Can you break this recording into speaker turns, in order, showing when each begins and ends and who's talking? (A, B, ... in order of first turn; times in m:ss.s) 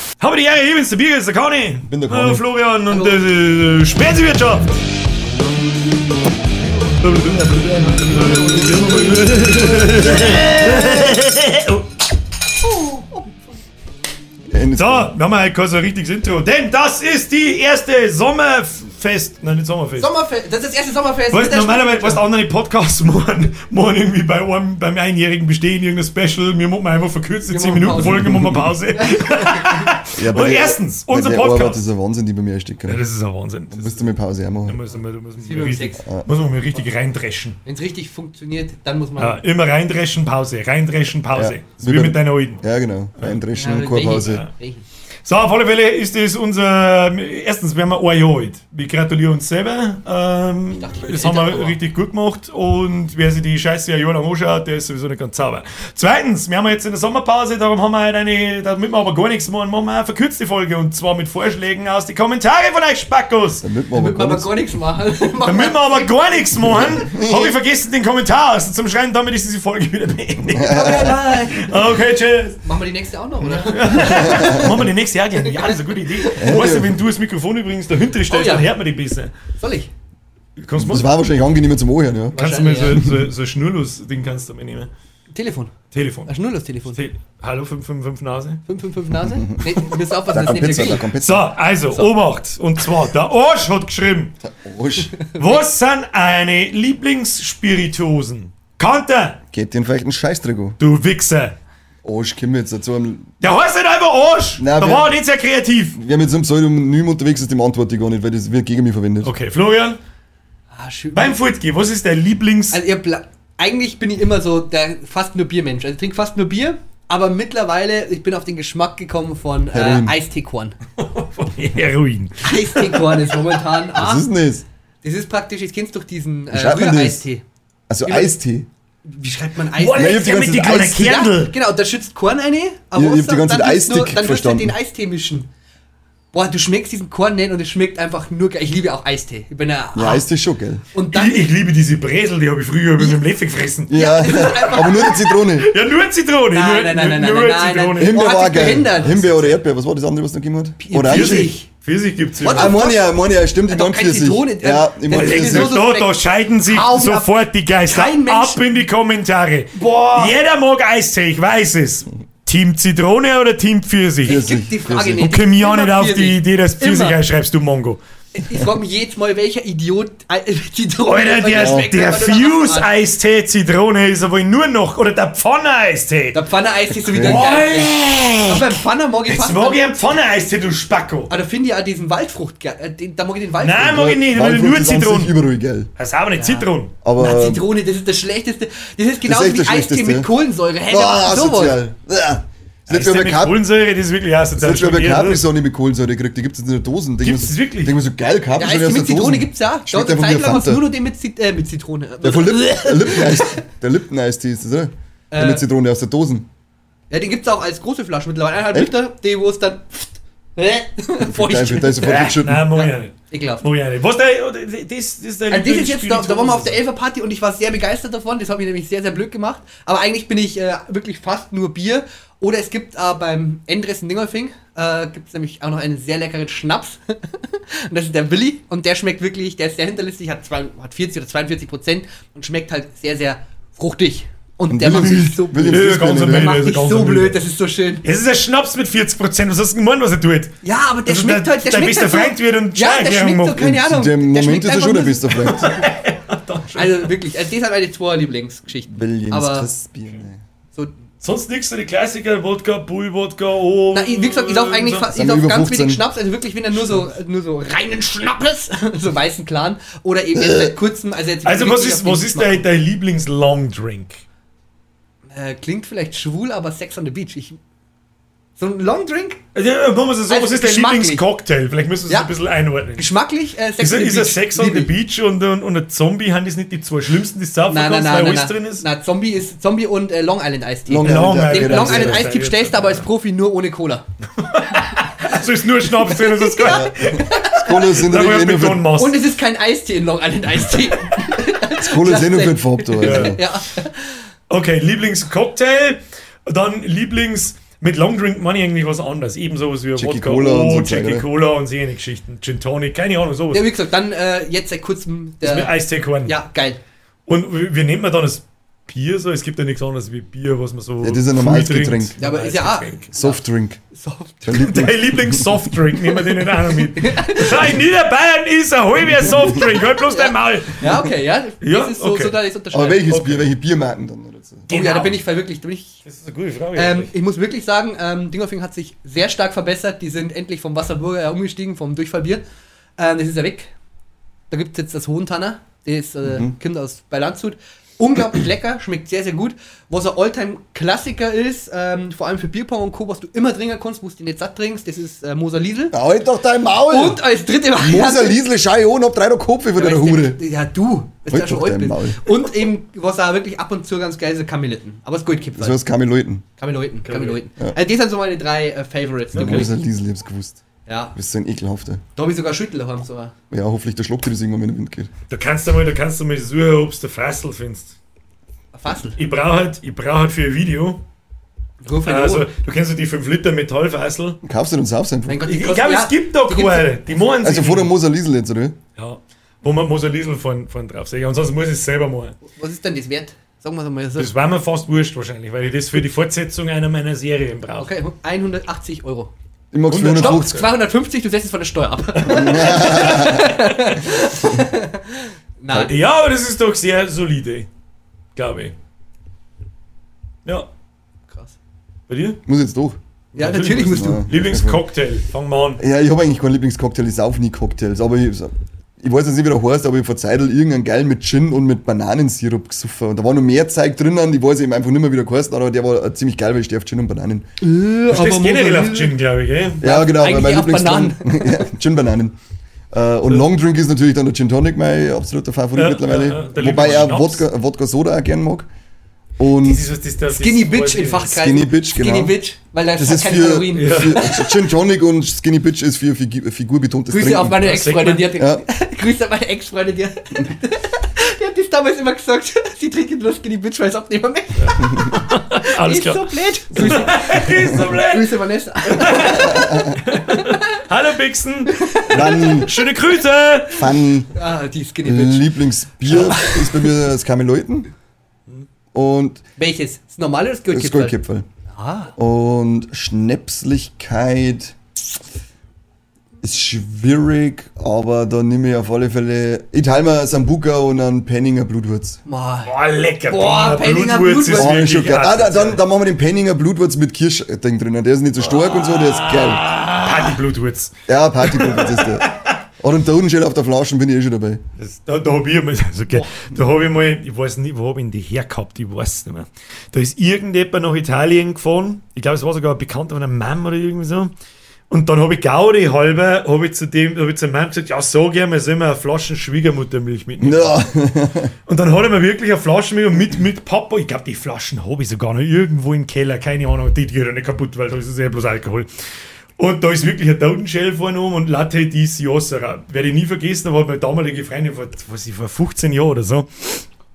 0:00.2-0:04.8 A
0:01.9-0:02.4 B
0:02.9-0:03.2 C
0:07.0-0:11.9 A
0:08.1-0:11.0 C
0:12.6-0:13.3 C
0:14.5-0:15.1 B
0:14.8-0:20.1 A
0:20.0-0:22.2 C
0:21.3-0:31.8 A
0:27.5-0:28.4 C
0:28.0-0:28.7 B
0:28.9-0:30.0 C
0:30.2-0:33.0 B
0:32.9-0:34.1 A
0:33.7-0:34.8 B
0:34.6-0:37.6 A
0:35.4-0:36.1 C
0:36.0-0:36.3 B
0:37.6-0:39.4 C
0:39.2-0:42.6 A
0:41.3-0:44.4 B
0:43.5-0:44.8 C
0:44.1-0:44.5 A
0:45.2-1:03.6 A
0:50.8-0:51.8 C
1:03.6-1:04.5 B
1:03.9-1:06.4 C
1:05.4-1:12.7 A
1:06.6-1:07.6 B
1:10.5-1:11.2 B
1:10.6-1:11.9 C
1:12.6-1:14.7 C
1:13.5-1:19.3 A
1:14.0-1:14.9 B
1:15.5-1:16.2 C
1:16.3-1:17.0 B
1:18.3-1:18.8 C
1:19.6-1:19.9 C
1:20.6-1:21.1 A
1:20.8-1:22.4 B
1:22.4-1:23.0 C
1:22.4-1:24.9 A
1:22.9-1:23.3 B
1:25.3-1:25.8 C
1:25.9-1:26.3 A
1:26.3-1:27.1 C
1:26.8-1:28.6 A
1:28.7-1:31.0 C
1:29.5-1:31.5 B
1:30.6-1:34.3 A
1:34.4-1:35.2 B
1:35.4-1:39.4 A
1:39.5-1:40.8 B
1:40.8-1:41.6 A
1:42.0-1:43.3 B
1:43.4-1:46.0 A
1:44.6-1:45.1 B
1:46.0-1:49.3 B
1:49.2-1:50.0 A
1:50.7-1:51.4 C
1:51.2-1:52.8 A
1:52.7-2:00.8 C
1:59.7-2:00.2 B
2:01.0-2:03.4 A
2:02.4-2:04.3 C
2:04.0-2:04.6 B
2:05.0-2:07.4 C
2:06.5-2:07.2 B
2:07.9-2:08.7 B
2:08.1-2:08.4 C
2:09.0-2:15.5 C
2:09.7-2:11.5 A
2:09.9-2:10.7 B
2:12.9-2:14.8 B
2:16.3-2:20.2 C
2:20.0-2:20.8 B
2:20.9-2:21.5 C
2:21.1-2:24.0 A
2:23.9-2:25.7 B
2:23.9-2:25.4 C
2:25.5-2:28.3 A
2:26.5-2:29.3 C
2:28.0-2:31.6 B
2:30.8-2:31.7 C
2:31.1-2:32.8 A
2:32.4-2:33.1 C
2:32.5-2:35.8 B
2:33.7-2:38.7 C
2:35.1-2:44.4 A
2:39.7-2:40.4 C
2:44.2-2:45.3 B
2:44.3-2:47.2 C
2:45.2-2:48.0 A
2:48.3-2:52.9 C
2:51.0-2:56.4 A
2:51.6-2:51.9 B
2:56.3-2:59.8 C
2:57.1-2:57.5 B
2:57.2-3:01.3 A
3:01.3-3:04.1 C
3:03.6-3:05.3 A
3:03.8-3:05.9 B
3:06.0-3:06.9 A
3:06.4-3:11.8 C
3:07.0-3:07.7 B
3:09.2-3:10.3 B
3:10.9-3:13.6 B
3:12.9-3:15.4 A
3:14.6-3:20.9 B
3:17.2-3:18.0 A
3:18.6-3:23.6 C
3:22.2-3:26.5 B
3:25.3-3:25.6 C
3:27.1-3:33.7 C
3:31.2-3:32.7 B
3:32.0-3:36.8 A
3:35.5-3:58.0 C
3:54.7-3:56.6 B
3:55.6-3:57.4 A
3:58.0-4:03.7 A
4:00.6-4:05.7 C
4:03.6-4:05.8 B
4:05.3-4:07.2 A
4:06.7-4:09.7 C
4:08.9-4:10.4 B
4:11.2-4:15.1 A
4:13.9-4:22.7 C
4:15.1-4:16.0 B
4:20.4-4:20.8 B
4:21.4-4:24.2 A
4:25.3-4:27.6 C
4:28.6-4:29.4 C
4:29.6-4:33.2 A
4:30.3-4:31.2 C
4:33.0-4:34.9 C
4:33.8-4:38.9 A
4:37.7-4:44.0 C
4:40.9-4:42.3 B
4:40.9-4:43.1 A
4:44.4-4:49.2 A
4:45.9-4:47.8 C
4:46.6-4:48.9 B
4:48.9-4:54.2 C
4:51.8-4:53.4 B
4:53.0-4:53.4 A
4:54.5-5:03.7 A
5:00.0-5:01.3 B
5:03.5-5:06.8 C
5:05.4-5:06.4 A
5:07.3-5:13.1 A
5:11.0-5:12.2 B
5:12.2-5:13.4 C
5:13.1-5:13.8 B
5:13.9-5:14.4 C
5:14.4-5:15.7 B
5:14.5-5:22.4 A
5:16.2-5:17.8 C
5:19.2-5:19.5 B
5:19.5-5:23.1 C
5:22.7-5:24.7 B
5:23.1-5:23.5 A
5:24.7-5:25.2 A
5:24.7-5:26.0 C
5:26.0-5:27.1 A
5:26.7-5:32.4 C
5:33.0-5:33.7 C
5:34.5-5:46.0 C
5:36.2-5:36.6 B
5:45.9-5:47.2 B
5:46.9-5:48.4 C
5:47.8-5:50.4 B
5:49.8-5:55.8 C
5:51.3-5:52.4 B
5:55.6-5:56.4 B
5:56.6-5:59.7 C
5:57.1-5:57.4 A
5:59.3-6:00.6 B
5:59.4-5:59.7 A
6:00.9-6:01.2 C
6:01.2-6:02.0 B
6:02.2-6:03.3 C
6:03.5-6:05.1 B
6:05.3-6:08.0 A
6:08.7-6:09.2 C
6:09.2-6:11.0 A
6:11.8-6:12.5 C
6:12.0-6:14.4 A
6:14.4-6:15.4 B
6:15.3-6:17.1 C
6:15.4-6:17.9 A
6:17.4-6:18.8 B
6:19.0-6:22.4 A
6:22.5-6:24.3 C
6:24.2-6:27.9 A
6:27.8-6:29.3 C
6:29.7-6:30.6 B
6:29.9-6:30.7 A
6:30.1-6:36.0 C
6:32.2-6:33.5 B
6:35.7-6:37.7 A
6:38.4-6:38.8 A
6:41.3-6:41.6 C
6:42.1-6:42.4 A
6:42.5-6:43.0 B
6:43.4-6:44.3 C
6:43.4-6:45.8 A
6:43.8-6:44.8 B
6:45.8-6:57.5 B
6:57.6-6:59.2 C
6:58.1-6:59.8 A
6:59.8-7:02.4 B
6:59.8-7:01.7 C
7:02.9-7:08.7 B
7:05.7-7:07.5 A
7:09.4-7:09.9 B
7:09.6-7:11.3 A
7:10.3-7:14.5 C
7:11.3-7:12.4 B
7:13.0-7:17.7 B
7:13.7-7:14.3 A
7:17.1-7:30.7 C
7:17.5-7:18.4 A
7:18.4-7:18.6 B
7:24.8-7:25.1 B
7:25.0-7:28.3 A
7:26.7-7:27.9 B
7:28.8-7:33.9 A
7:29.1-7:30.0 B
7:31.7-7:32.7 C
7:32.1-7:32.7 B
7:33.8-7:34.3 B
7:34.3-7:35.5 C
7:35.0-7:37.9 B
7:36.1-7:36.8 C
7:38.9-7:39.4 B
7:39.6-7:41.2 C
7:40.7-7:41.5 B
7:41.7-7:42.1 C
7:42.2-7:44.8 B
7:46.4-7:52.2 B
7:52.3-7:54.8 C
7:52.6-7:55.8 A
7:54.5-7:59.9 B
7:58.4-8:02.5 A
8:01.1-8:02.3 B
8:02.8-8:04.6 B
8:04.8-8:14.3 A
8:14.9-8:20.8 A
8:20.4-8:21.5 B
8:21.7-8:28.9 A
8:29.6-8:36.8 A